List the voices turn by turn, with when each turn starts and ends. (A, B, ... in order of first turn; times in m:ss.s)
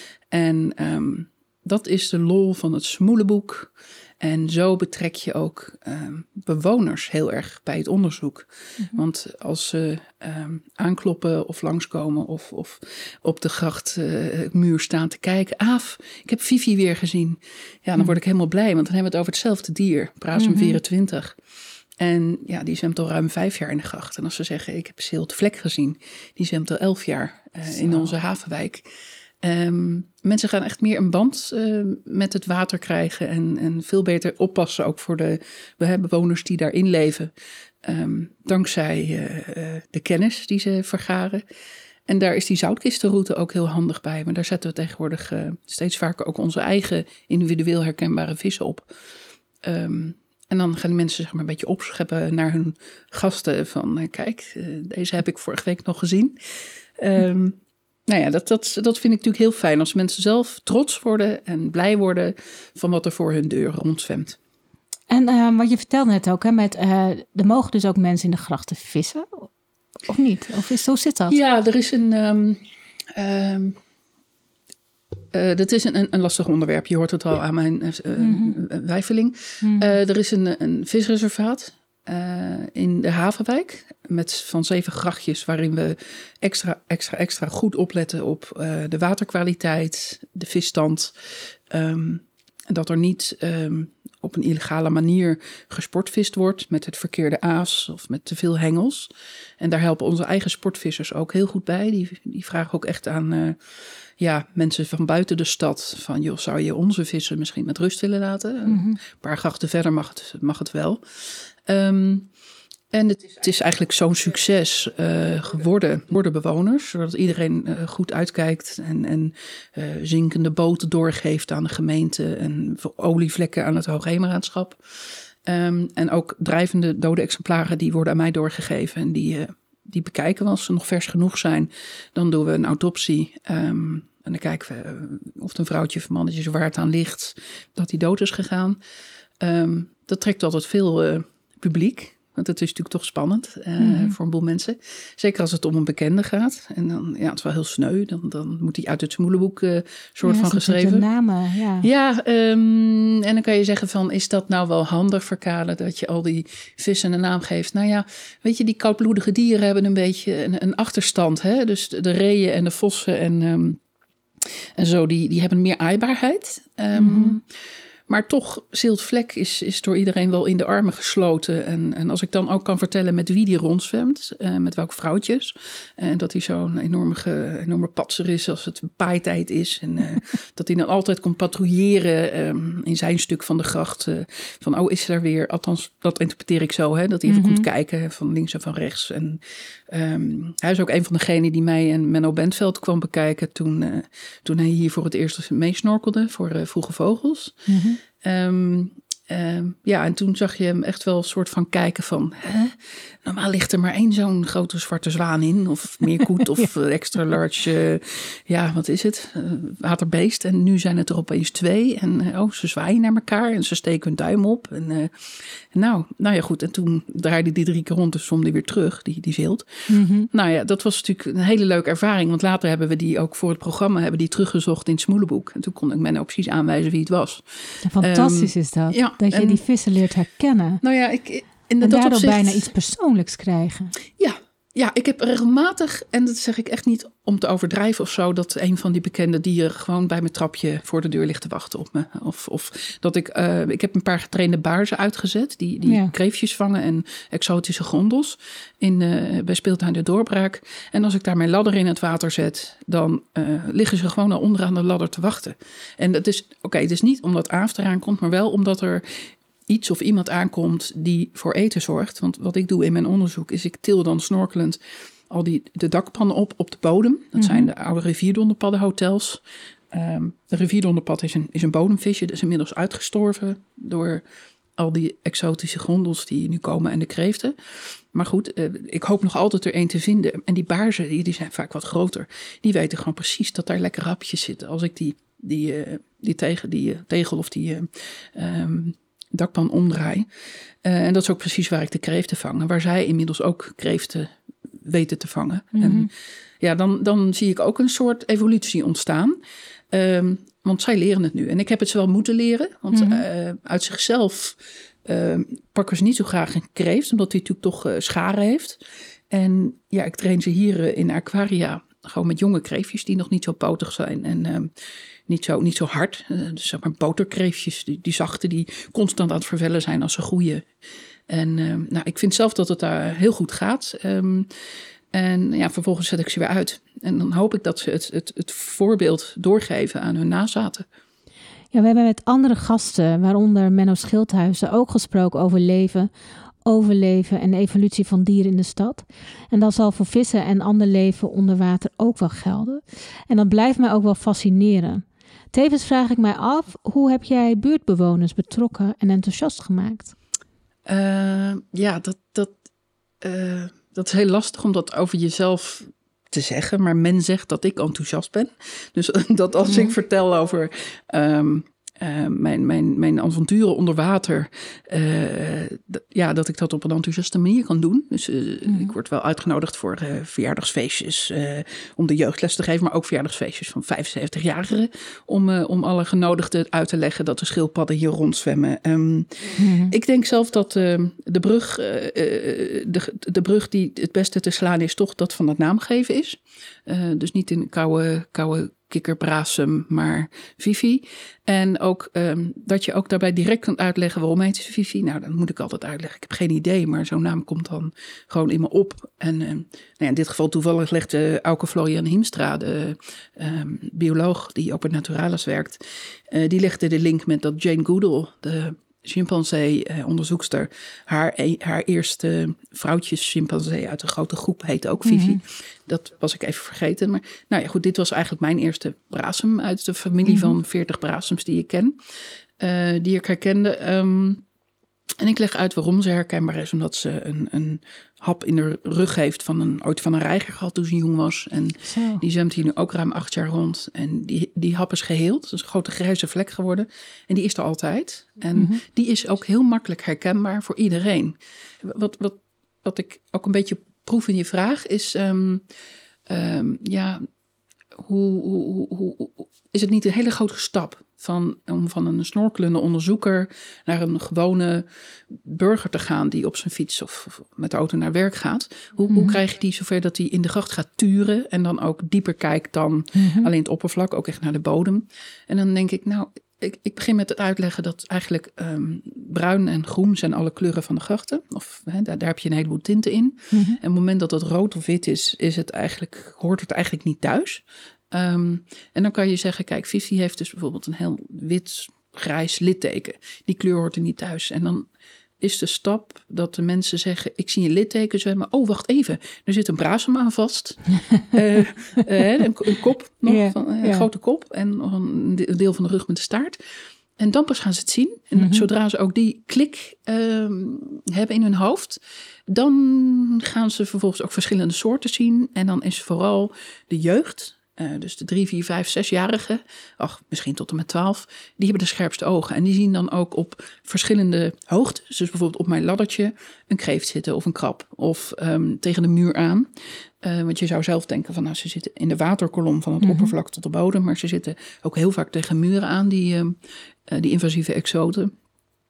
0:00.3-0:21.4 A
0:20.4-0:20.8 B
0:22.0-0:28.9 A
0:27.7-0:28.1 B
0:29.4-0:37.3 A
0:37.8-0:41.4 A
0:42.1-0:48.9 A
0:49.6-0:56.4 A
0:57.0-1:04.4 A
1:05.1-1:09.5 B
1:10.1-1:11.4 B
1:11.3-1:12.6 A
1:13.1-1:13.8 A
1:15.3-1:52.3 A
1:18.2-1:18.6 B
1:19.6-1:19.9 B
1:48.7-1:49.0 B
1:52.9-2:18.8 A
2:19.4-2:31.1 A
2:23.8-2:24.2 B
2:30.2-2:31.9 B
2:31.8-2:43.8 A
2:44.4-2:47.5 A
2:46.9-2:47.4 B
2:48.1-3:39.8 A
3:07.3-3:07.7 B
3:17.7-3:18.0 B
3:39.9-3:40.3 B
3:40.3-3:49.6 A
3:47.8-3:50.8 B
3:50.8-3:52.7 A
3:51.8-3:53.9 B
3:54.2-4:34.2 A
4:05.8-4:06.1 B
4:27.4-4:27.7 B
4:34.8-4:50.3 A
4:50.8-4:59.4 A
4:55.8-4:56.1 B
4:59.9-5:14.7 A
5:02.9-5:03.2 B
5:15.3-5:20.7 A
5:21.3-5:24.5 A
5:25.1-5:30.9 A
5:31.7-5:36.1 B
5:36.6-5:50.1 B
5:50.9-5:52.5 A
5:53.2-7:02.0 A
6:08.7-6:08.9 B
6:19.6-6:20.0 B
6:55.0-6:55.4 B
7:00.3-7:00.6 B
7:02.6-7:04.4 A
7:05.2-7:25.6 A
7:11.8-7:12.2 B
7:18.5-7:18.8 B
7:26.3-7:27.3 A
7:27.9-8:04.9 A
7:39.1-7:39.4 B
7:43.2-7:43.5 B
7:53.5-7:53.8 B
8:05.4-8:16.6 A
8:13.3-8:14.1 B
8:17.2-8:48.3 A
8:18.4-8:18.7 B
8:43.0-8:43.4 B